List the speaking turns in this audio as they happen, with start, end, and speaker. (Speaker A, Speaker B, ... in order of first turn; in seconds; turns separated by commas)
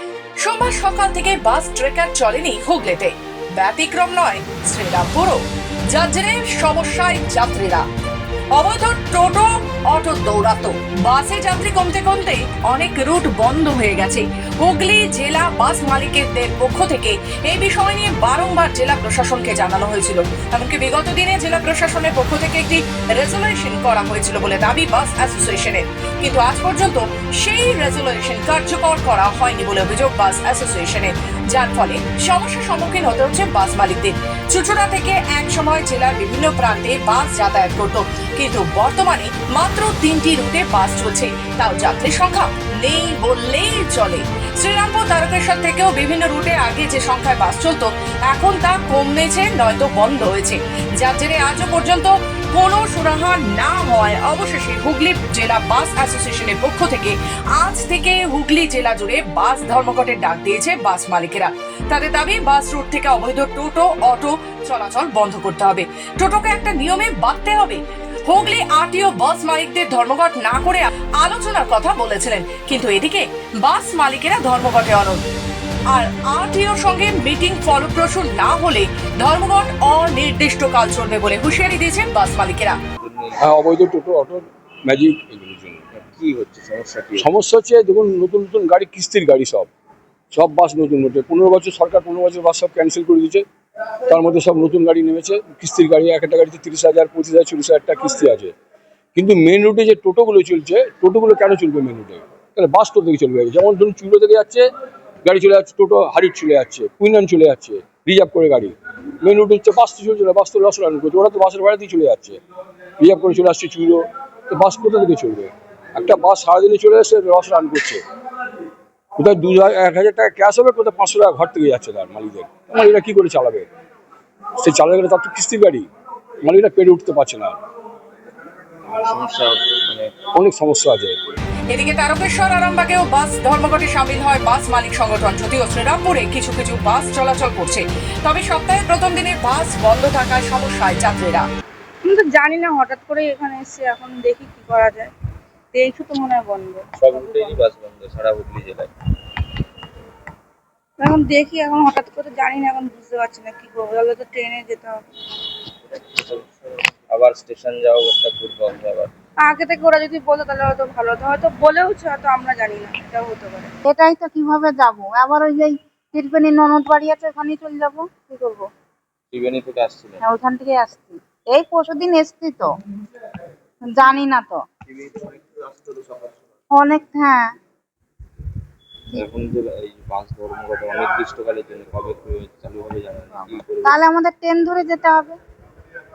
Speaker A: 0.4-7.8, Speaker A: 8.5-75.2, Speaker A: 75.9-82.8, Speaker B: 83.0-83.4, Speaker C: 83.4-85.8, Speaker B: 85.9-87.3, Speaker C: 87.2-89.7, Speaker C: 90.3-93.4, Speaker C: 94.1-98.5, Speaker C: 99.1-104.7, Speaker C: 105.2-112.4, Speaker C: 113.0-118.0, Speaker C: 119.2-123.7, Speaker C: 124.6-125.9, Speaker C: 126.4-127.6, Speaker B: 128.8-130.1, Speaker C: 130.3-131.2, Speaker A: 131.7-141.5, Speaker D: 142.1-145.1, Speaker D: 145.7-147.6, Speaker B: 147.0-148.9, Speaker D: 151.0-155.0, Speaker B: 155.9-159.1, Speaker D: 159.4-163.7, Speaker E: 163.8-168.7, Speaker B: 169.3-170.2, Speaker E: 170.2-172.7, Speaker E: 173.9-174.6, Speaker E: 176.7-177.5, Speaker B: 179.1-184.0, Speaker E: 183.8-185.4